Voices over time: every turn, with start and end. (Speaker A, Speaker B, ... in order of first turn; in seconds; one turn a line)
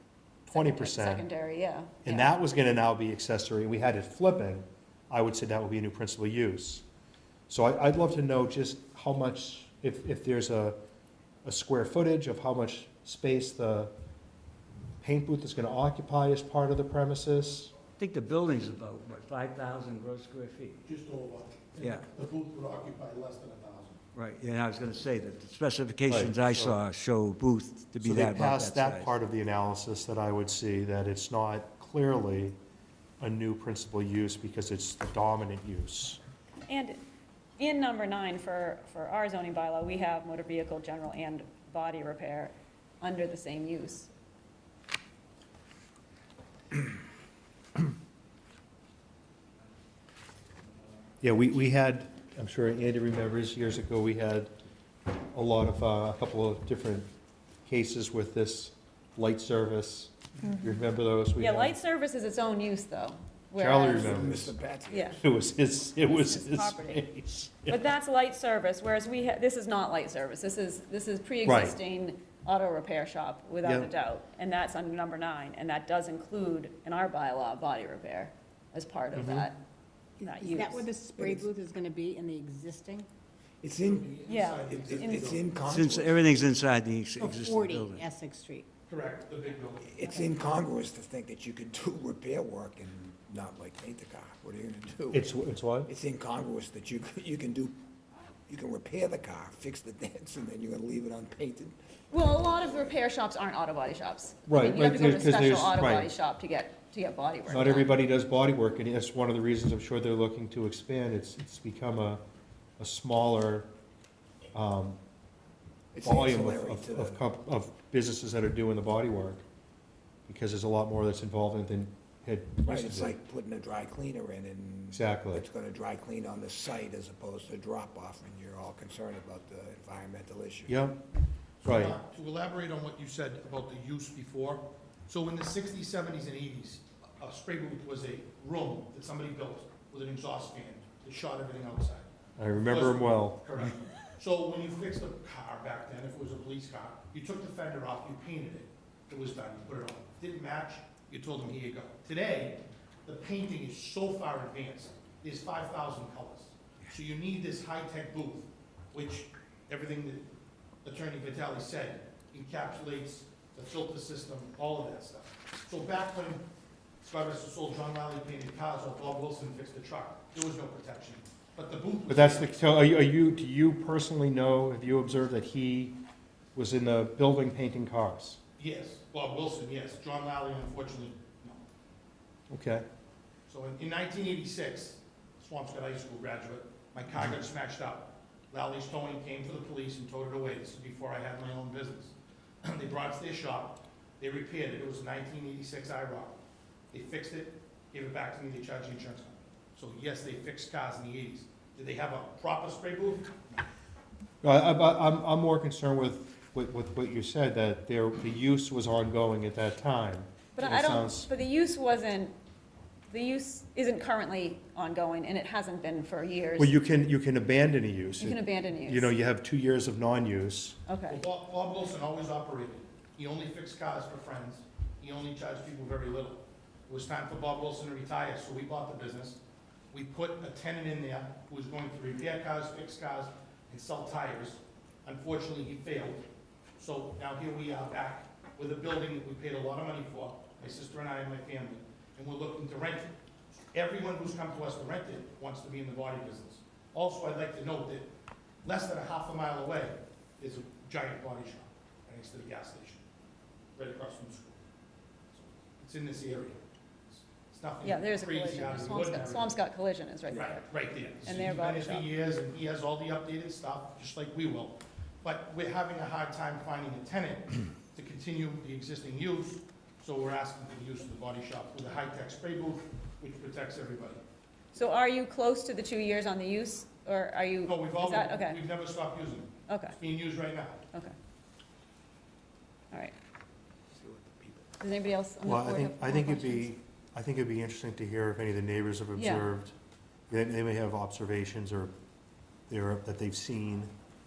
Speaker A: 0.4-1.3
Speaker B: 0.5-2.3
Speaker A: 2.0-6.8
Speaker A: 7.5-10.8
Speaker A: 11.4-13.9
Speaker A: 15.0-17.7
Speaker C: 18.0-20.8
Speaker D: 20.8-24.0
Speaker C: 21.8-22.1
Speaker C: 24.1-29.1
Speaker A: 26.1-26.8
Speaker A: 28.0-32.6
Speaker A: 33.2-36.2
Speaker B: 36.7-37.0
Speaker B: 37.6-44.1
Speaker A: 51.2-54.5
Speaker A: 55.1-57.1
Speaker A: 57.6-61.8
Speaker B: 61.4-64.1
Speaker A: 63.5-64.5
Speaker E: 63.8-65.2
Speaker B: 64.9-65.2
Speaker A: 65.2-67.9
Speaker B: 66.0-67.0
Speaker B: 67.7-79.5
Speaker A: 71.4-71.8
Speaker A: 73.6-73.9
Speaker A: 79.1-79.5
Speaker F: 80.2-83.1
Speaker B: 80.2-80.8
Speaker E: 81.1-81.5
Speaker E: 83.6-86.4
Speaker D: 83.9-85.5
Speaker B: 84.3-85.2
Speaker C: 85.6-88.1
Speaker F: 87.3-88.7
Speaker D: 88.9-90.0
Speaker E: 89.8-95.3
Speaker A: 95.1-95.9
Speaker E: 95.9-97.8
Speaker E: 98.5-101.8
Speaker B: 102.1-108.0
Speaker A: 104.5-106.1
Speaker A: 107.5-112.2
Speaker A: 112.8-113.7
Speaker A: 114.5-115.0
Speaker E: 115.9-117.2
Speaker A: 116.0-119.4
Speaker A: 120.3-123.2
Speaker E: 122.6-130.8
Speaker A: 124.9-125.4
Speaker A: 130.7-131.0
Speaker D: 131.6-142.0
Speaker A: 131.6-131.9
Speaker A: 142.4-143.4
Speaker D: 142.6-160.2
Speaker D: 160.8-166.4
Speaker D: 167.0-172.5
Speaker A: 172.1-175.9
Speaker A: 176.5-178.4
Speaker D: 178.6-181.6
Speaker A: 182.5-182.8
Speaker D: 183.5-196.4
Speaker D: 196.9-203.4
Speaker A: 204.4-211.3
Speaker B: 210.6-212.3
Speaker B: 213.1-216.8
Speaker A: 216.6-220.8
Speaker B: 218.2-219.1
Speaker B: 220.9-221.2
Speaker D: 221.1-229.4
Speaker D: 229.9-236.2
Speaker D: 236.8-243.1
Speaker D: 243.7-248.1
Speaker D: 248.6-253.0
Speaker D: 253.8-254.6
Speaker D: 255.3-259.6
Speaker B: 257.8-260.6
Speaker D: 260.3-274.2
Speaker B: 261.4-262.1
Speaker B: 274.7-278.6
Speaker D: 277.6-280.9
Speaker B: 279.7-280.0
Speaker B: 280.9-281.2
Speaker E: 283.9-284.7
Speaker B: 284.8-286.7
Speaker A: 285.4-289.7
Speaker B: 289.1-289.5
Speaker A: 290.3-291.9
Speaker A: 292.7-293.9